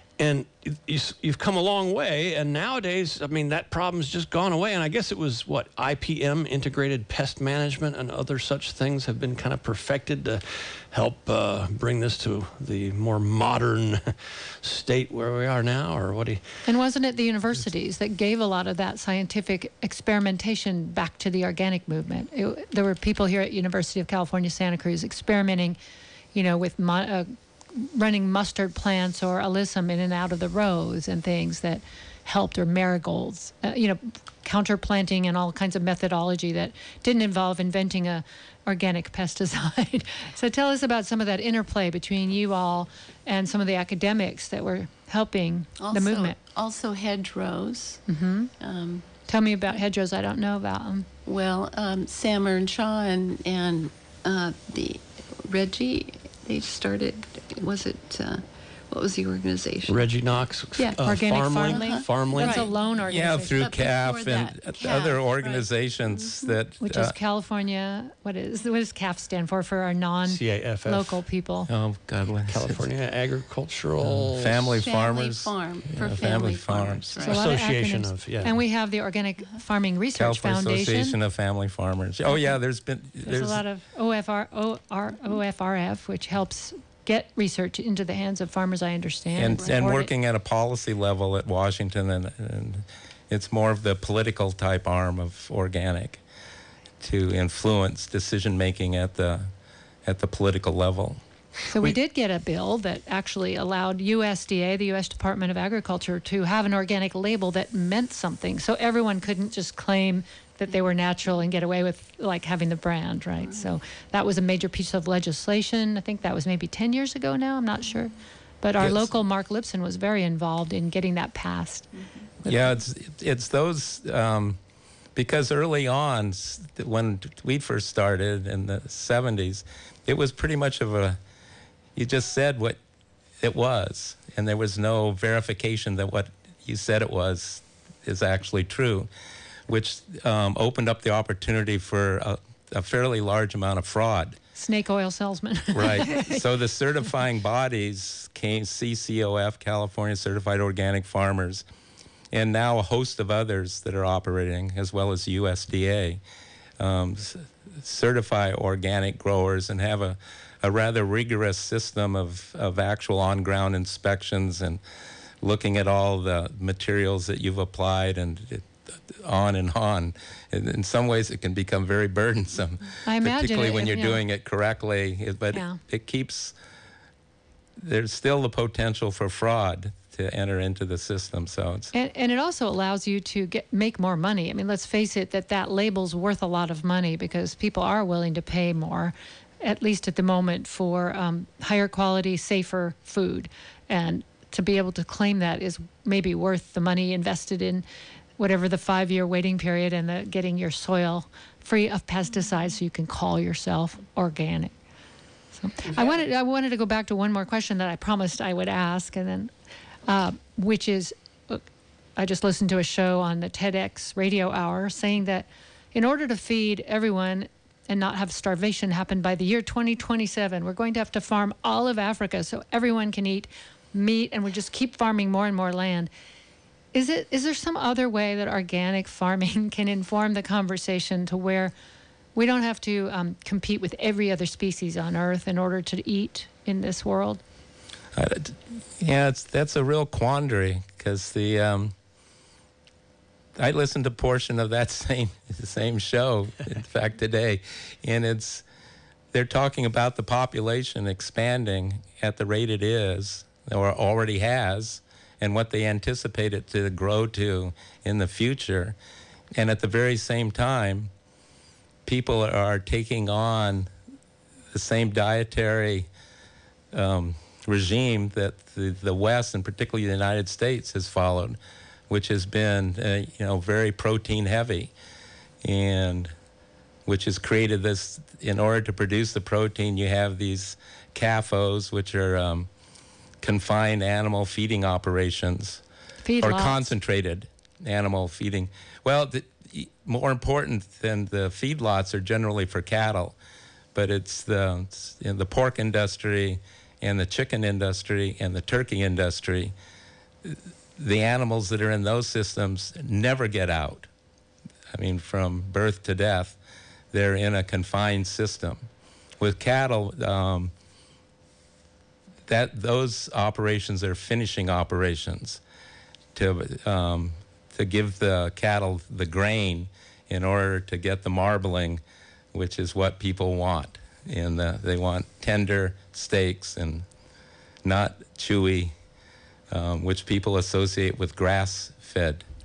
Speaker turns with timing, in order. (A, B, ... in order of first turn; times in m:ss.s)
0:00.2-0:16.4 A
0:16.7-0:25.8 B
0:26.3-0:46.4 B
0:45.8-0:48.0 C
0:48.1-0:48.5 B
0:48.6-0:49.1 C
0:49.3-0:51.1 B
0:51.3-1:00.0 C
0:59.9-1:02.7 A
1:01.0-1:03.7 B
1:01.6-1:02.7 C
1:03.1-1:07.2 D
1:03.6-1:06.6 C
1:06.8-1:11.7 B
1:10.3-1:11.2 A
1:11.7-1:12.8 D
1:12.5-1:14.8 A
1:14.0-1:17.1 D
1:14.8-1:17.4 C
1:17.2-1:18.6 A
1:17.2-1:21.2 B
1:20.2-1:23.6 D
1:23.2-1:30.1 B
1:29.4-1:36.2 D
1:29.6-1:30.0 C
1:37.0-1:39.5 D
1:40.1-1:41.2 D
1:41.7-2:01.9 B
1:58.8-1:59.1 D
2:02.5-2:04.6 D
2:05.2-2:11.2 D
2:12.0-2:12.8 D
2:13.4-2:19.1 D
2:19.7-2:24.4 D
2:24.6-2:26.4 B
2:25.7-2:31.6 D
2:32.3-2:36.2 D
2:36.8-2:44.8 D
2:45.4-2:56.5 D
2:53.0-2:54.2 B
2:55.5-2:55.8 B
2:57.8-3:01.9 D
3:01.9-3:17.8 B
3:18.4-3:24.7 B
3:25.6-3:29.5 B
3:30.1-3:31.6 B
3:32.2-3:46.1 B
3:46.9-3:51.7 B
3:52.4-3:57.4 B
3:58.2-4:02.0 D
4:03.6-4:08.6 D
4:09.3-4:19.0 D
4:19.6-4:21.1 D
4:22.1-4:23.9 D
4:24.7-4:26.1 D
4:26.9-4:31.6 D
4:32.1-4:34.9 D
4:35.6-4:36.3 D
4:37.1-4:42.7 D
4:43.4-4:45.8 D
4:46.2-4:46.8 B
4:46.4-4:53.4 D
4:54.0-4:59.7 D
5:00.4-5:04.1 D
5:04.9-5:06.6 D
5:07.1-5:08.9 D
5:09.4-5:10.7 D
5:12.5-5:15.6 D
5:16.4-5:22.0 D
5:22.5-5:27.1 D
5:27.8-5:28.9 D
5:29.7-5:32.4 D